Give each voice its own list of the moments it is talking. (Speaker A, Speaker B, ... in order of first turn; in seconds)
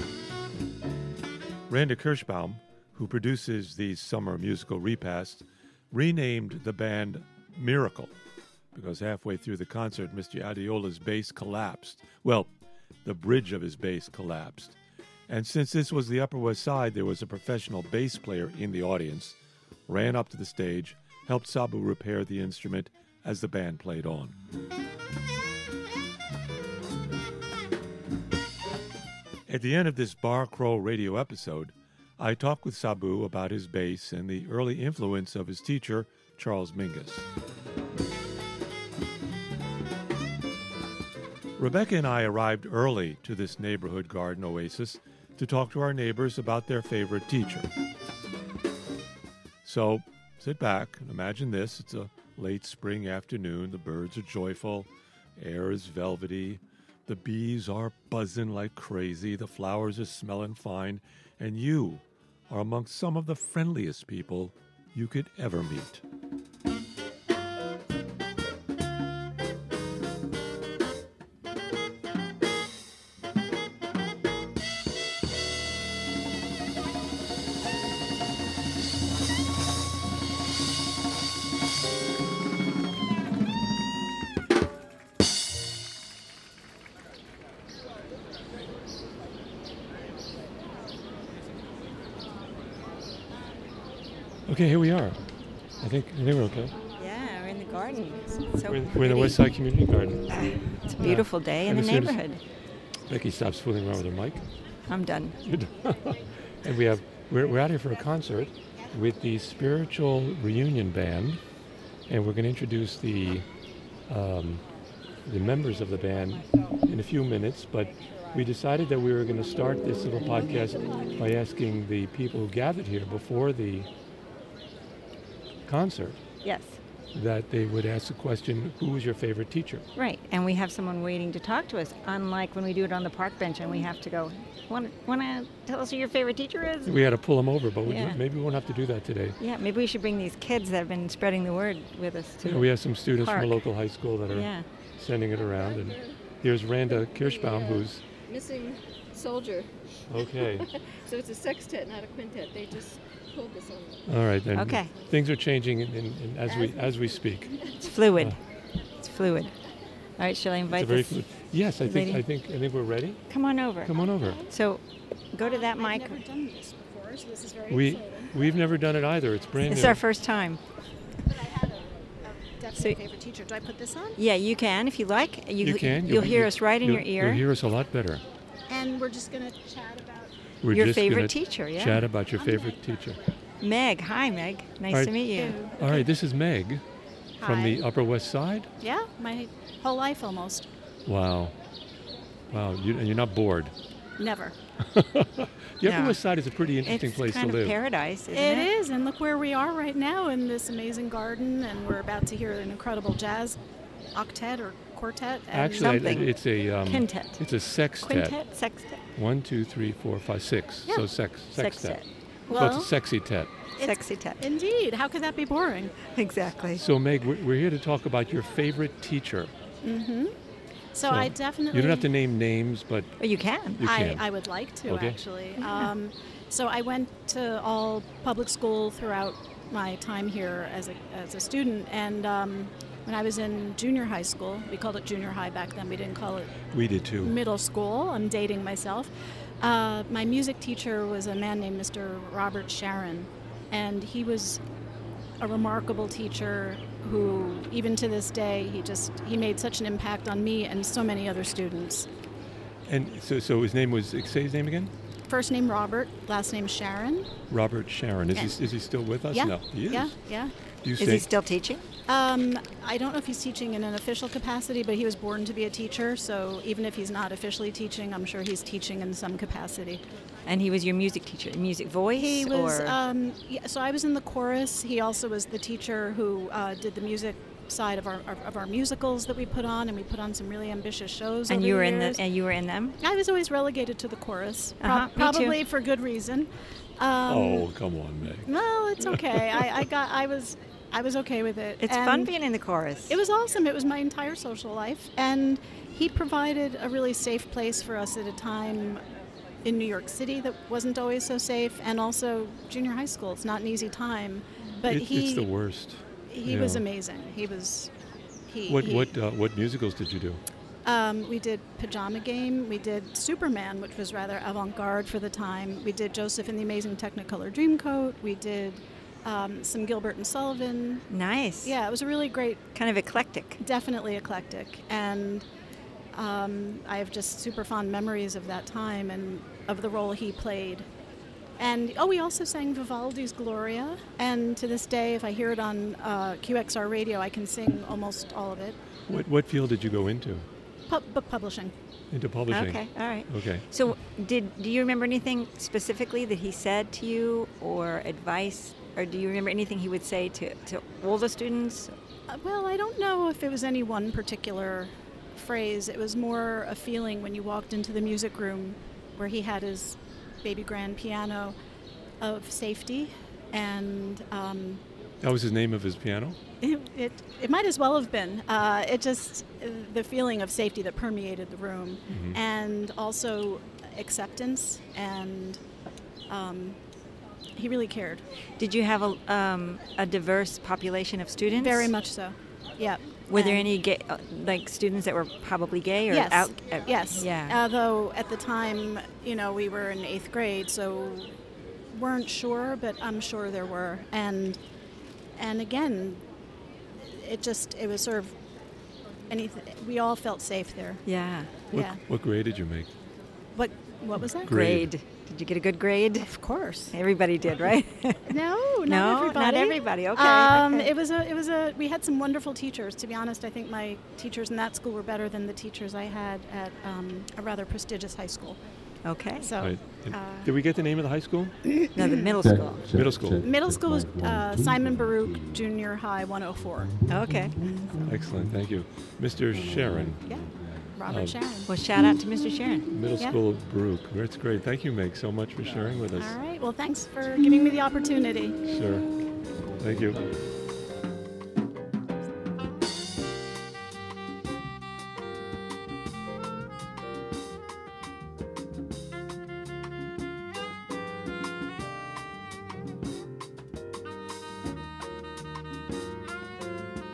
Speaker A: 1.7-8.1, 8.7-12.5, 13.1-14.8, 15.3-24.4, 29.5-37.3, 41.6-47.7, 49.6-66.0, 94.5-95.2, 95.8-96.8, 98.7-100.4, 101.0-102.2, 103.1-104.5, 105.4-111.4, 112.1-113.5, 114.1-114.6, 115.2-123.9, 125.7-126.2, 127.1-129.8, 136.8-139.4, 142.4-148.0, 150.1-150.7, 154.1-157.6, 160.7-163.2, 163.8-164.5, 167.7-170.0, 175.6-178.2, 180.6-183.2, 184.9-185.2, 185.8-186.8, 187.4-188.7, 191.1-191.6, 192.5-193.7, 194.8-197.8, 205.5-208.4, 209.2-212.0, 212.5-213.5, 216.7-219.5, 221.1-223.1, 223.8-224.2, 224.9-225.2, 236.7-237.4, 252.9-254.9, 257.5-260.2, 260.8-261.3, 287.3-289.6, 304.8-306.9, 308.7-310.4, 339.1-340.5, 342.1-343.6, 365.2-366.4, 372.1-372.4, 401.7-402.9, 404.3-404.9, 419.6-421.6, 422.9-423.5, 427.9-430.3, 431.1-431.4, 432.9-436.4, 438.6-439.1, 439.8-440.3
Speaker B: 97.0-99.5, 100.3-102.4, 104.9-105.4, 126.4-126.8, 130.0-137.0, 137.9-138.2, 139.4-143.6, 144.3-144.7, 154.5-154.9, 157.8-158.4, 159.0-159.5, 160.2-161.2, 161.8-162.2, 163.3-164.8, 165.3-166.2, 169.6-170.6, 174.2-177.4, 180.7-182.1, 183.6-185.6, 195.8-196.2, 196.8-198.7, 205.7-206.3, 206.8-207.4, 208.0-209.0, 211.6-212.8, 213.8-214.4, 216.1-216.8, 223.2-223.8, 261.0-261.9, 270.5-273.0, 281.5-283.0, 284.8-285.6, 291.8-293.2, 321.1-321.7, 322.7-323.6, 342.5-351.9, 378.6-381.9, 383.3-387.6, 401.1-401.5, 404.4-406.3, 406.9-410.9, 419.1-419.5, 421.9-422.9, 427.1-427.6, 431.7-432.9
Speaker C: 145.3-146.3, 146.9-154.1, 156.4-157.9
Speaker D: 165.4-168.3, 171.3-174.2, 178.7-180.3, 182.4-182.8, 185.3-186.1, 187.4-187.8, 188.8-190.7, 194.2-194.6, 198.3-203.6, 204.2-206.3, 212.5-212.9, 213.8-216.0, 219.8-220.3, 220.9-222.1, 223.8-236.6, 237.2-244.6, 245.4-252.1, 255.3-257.3, 259.3-260.5, 262.1-270.0, 272.2-282.2, 283.0-287.7, 288.5-292.3, 293.1-299.0, 299.6-305.5, 306.3-307.9, 308.5-309.1, 310.9-321.0, 321.6-322.6, 323.6-325.4, 326.1-330.9, 331.6-338.8, 340.9-341.7, 352.3-361.6, 362.2-364.8, 366.6-375.6, 376.3-376.8, 377.6-378.2, 381.6-383.7, 386.1-391.4, 391.9-394.6, 395.4-396.3, 397.0-398.4, 399.3-401.0, 401.7-402.0, 403.6-404.5, 406.2-406.9, 408.3-418.6, 419.4-420.5, 421.7-422.4, 423.4-427.0, 430.2-431.7, 436.2-438.6